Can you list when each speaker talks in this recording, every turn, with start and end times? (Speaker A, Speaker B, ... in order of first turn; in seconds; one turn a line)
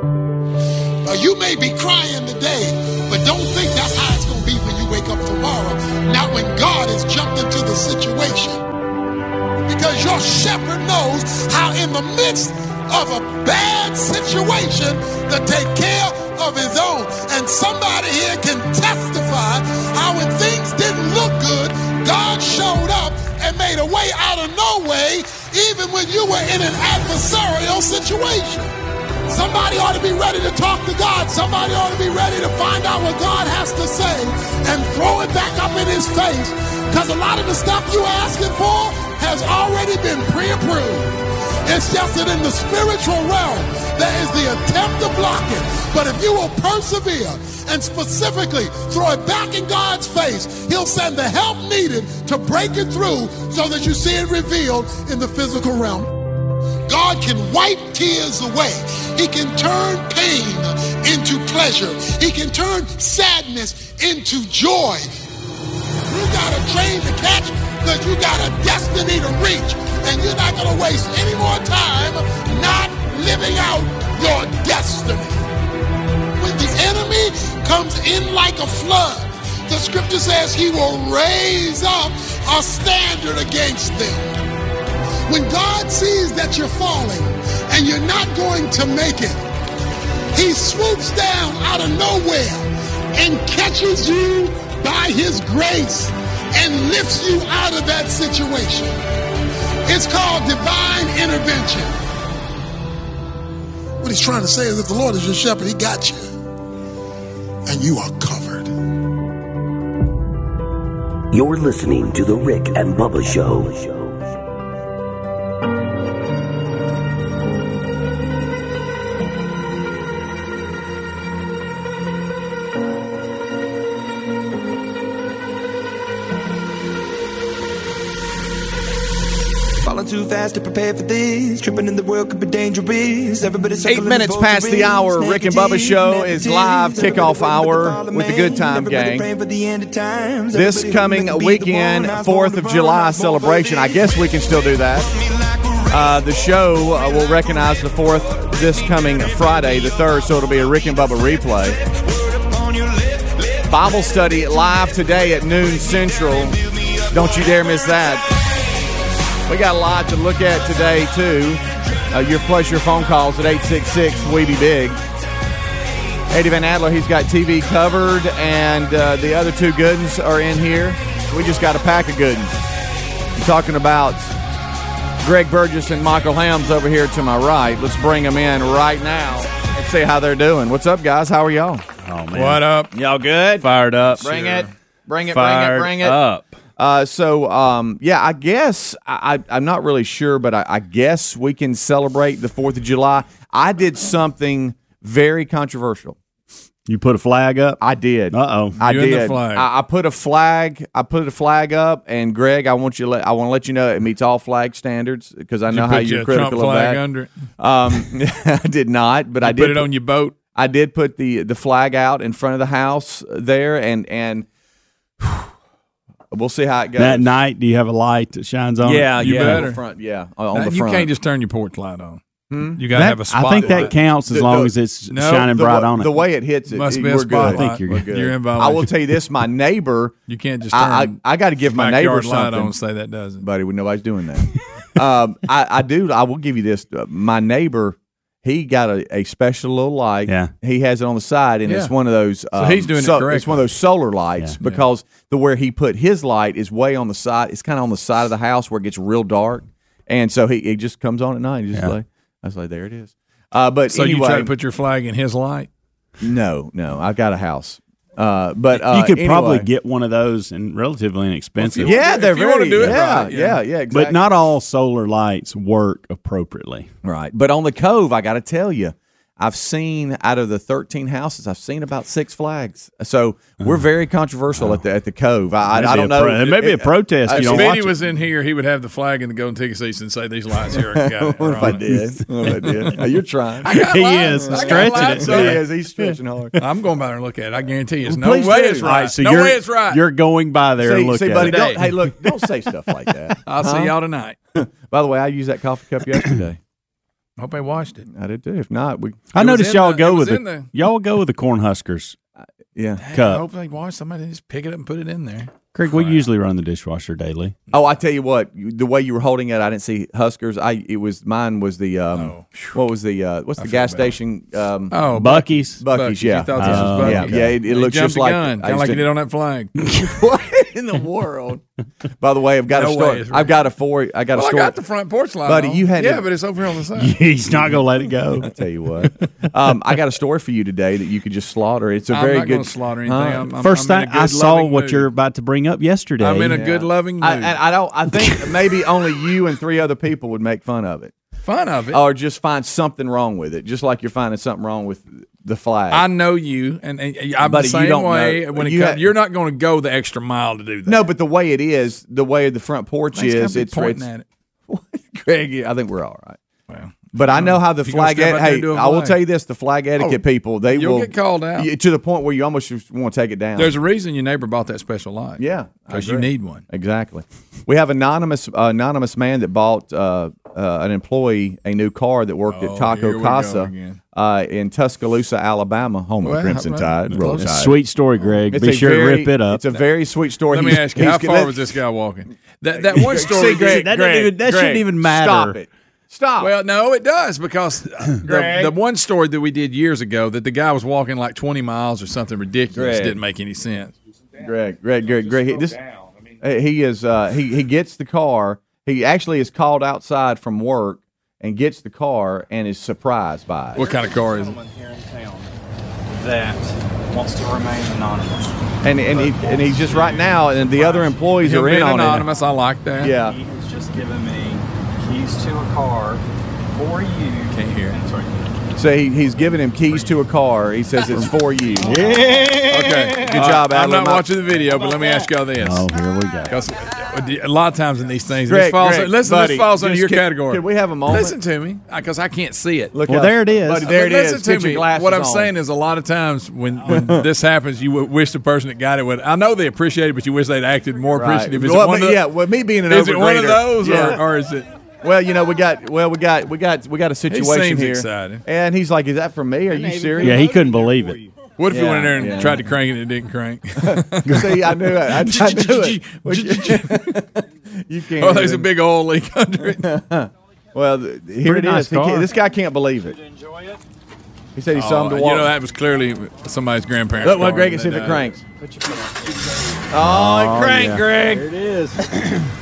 Speaker A: 1.1-8.6
Speaker A: 9.7-28.7
Speaker A: 29.3-56.1
Speaker A: 56.9-65.1
Speaker A: 66.1-75.4
Speaker A: 76.4-84.4
Speaker A: 85.3-89.4
Speaker A: 90.3-99.0
Speaker A: 99.8-101.9
Speaker A: 104.0-106.3
Speaker A: 107.7-108.7
Speaker B: 111.3-114.3
Speaker C: 129.8-144.1
Speaker D: 133.8-139.3
Speaker D: 140.5-145.1
Speaker C: 145.3-145.7
Speaker D: 145.9-151.8
Speaker C: 151.9-153.5
Speaker D: 153.7-156.6
Speaker C: 156.9-157.4
Speaker D: 157.1-158.3
Speaker D: 159.5-165.0
Speaker D: 166.3-172.5
Speaker D: 173.3-174.3
Speaker D: 175.2-181.8
Speaker E: 182.0-184.6
Speaker F: 182.3-182.9
Speaker D: 183.0-183.7
Speaker D: 184.2-186.2
Speaker F: 184.2-184.7
Speaker E: 185.3-186.5
Speaker D: 186.8-196.2
Speaker E: 196.9-198.8
Speaker D: 197.8-207.0
Speaker F: 198.8-199.7
Speaker F: 205.7-207.3
Speaker D: 207.6-209.9
Speaker F: 209.4-210.3
Speaker D: 210.5-214.4
Speaker D: 215.2-215.5
Speaker D: 216.3-217.3
Speaker E: 217.0-219.7
Speaker D: 218.8-221.1
Speaker F: 219.2-219.8
Speaker F: 220.5-222.2
Speaker D: 222.5-222.8
Speaker F: 222.7-223.9
Speaker E: 222.9-226.1
Speaker D: 223.6-224.7
Speaker F: 225.1-225.5
Speaker D: 225.4-230.2
Speaker F: 226.7-228.9
Speaker E: 227.4-228.1
Speaker F: 230.3-233.4
Speaker D: 230.7-232.7
Speaker D: 233.4-254.5
Speaker E: 240.3-240.5
Speaker F: 241.7-241.9
Speaker F: 242.5-243.6
Speaker F: 253.9-255.7
Speaker D: 256.2-259.7
Speaker E: 258.7-262.0
Speaker F: 261.6-263.6
Speaker D: 261.8-264.2
Speaker E: 262.8-263.2
Speaker E: 263.9-266.9
Speaker D: 267.0-277.8
Speaker E: 275.7-277.9
Speaker F: 277.3-281.8
Speaker D: 280.9-283.8
Speaker E: 281.6-282.8
Speaker F: 283.6-285.6
Speaker E: 283.7-286.2
Speaker D: 284.4-286.6
Speaker F: 286.6-290.0
Speaker E: 288.1-291.9
Speaker D: 288.6-288.8
Speaker D: 290.8-293.9
Speaker F: 291.4-291.9
Speaker F: 293.4-294.4
Speaker D: 294.5-296.6
Speaker F: 297.4-298.1
Speaker D: 298.1-299.2
Speaker E: 299.3-302.2
Speaker F: 299.4-300.7
Speaker D: 302.7-303.0
Speaker F: 303.0-306.2
Speaker E: 303.1-303.4
Speaker E: 305.7-307.5
Speaker D: 307.7-315.0
Speaker F: 312.1-312.8
Speaker F: 313.6-314.2
Speaker F: 314.9-319.7
Speaker E: 315.1-315.8
Speaker D: 315.8-319.0
Speaker E: 316.6-317.6
Speaker D: 320.1-321.6
Speaker D: 322.2-324.8
Speaker F: 322.7-323.6
Speaker F: 324.3-327.2
Speaker D: 325.4-326.3
Speaker E: 326.9-328.5
Speaker D: 328.4-333.4
Speaker F: 332.1-335.1
Speaker E: 333.6-336.6
Speaker F: 336.2-337.6
Speaker D: 336.5-341.1
Speaker F: 341.4-342.0
Speaker D: 341.9-346.0
Speaker F: 345.9-351.0
Speaker D: 347.4-349.1
Speaker D: 350.9-354.1
Speaker F: 353.1-354.2
Speaker D: 354.7-356.4
Speaker F: 356.7-359.2
Speaker D: 357.1-363.8
Speaker F: 360.0-361.7
Speaker F: 363.6-366.6
Speaker D: 365.4-377.8
Speaker F: 372.5-374.0
Speaker F: 376.2-377.5
Speaker E: 377.1-379.6
Speaker D: 378.5-381.6
Speaker F: 380.5-384.3
Speaker D: 382.7-386.5
Speaker E: 383.4-385.6
Speaker F: 386.4-393.9
Speaker D: 388.2-388.7
Speaker D: 392.7-393.2
Speaker D: 394.4-395.8
Speaker D: 396.4-403.8
Speaker G: 403.7-405.5
Speaker F: 403.8-404.6
Speaker G: 406.1-411.2
Speaker D: 408.8-412.2
Speaker F: 411.4-413.1
Speaker D: 413.0-413.4
Speaker G: 413.2-418.6
Speaker F: 417.5-418.0
Speaker D: 418.7-422.0
Speaker E: 421.8-422.7
Speaker G: 421.9-423.1
Speaker F: 422.7-425.9
Speaker D: 422.8-424.4
Speaker E: 425.6-426.6
Speaker F: 426.5-432.9
Speaker D: 428.5-431.4
Speaker D: 432.9-435.5
Speaker E: 433.1-433.9
Speaker F: 433.8-442.2
Speaker D: 436.9-437.2
Speaker D: 441.1-444.2
Speaker F: 442.9-444.7
Speaker D: 445.0-450.5
Speaker F: 447.3-448.4
Speaker G: 449.7-451.3
Speaker E: 450.2-451.2
Speaker F: 451.6-454.6
Speaker D: 451.7-452.7
Speaker D: 453.8-457.3
Speaker F: 455.2-457.2
Speaker D: 457.9-458.7
Speaker F: 458.2-459.9
Speaker D: 459.8-463.2
Speaker E: 461.4-462.3
Speaker G: 463.0-463.8
Speaker D: 464.6-465.5
Speaker F: 464.7-468.3
Speaker D: 467.2-468.4
Speaker G: 468.6-469.8
Speaker D: 469.9-471.4
Speaker E: 469.9-471.2
Speaker G: 471.0-472.3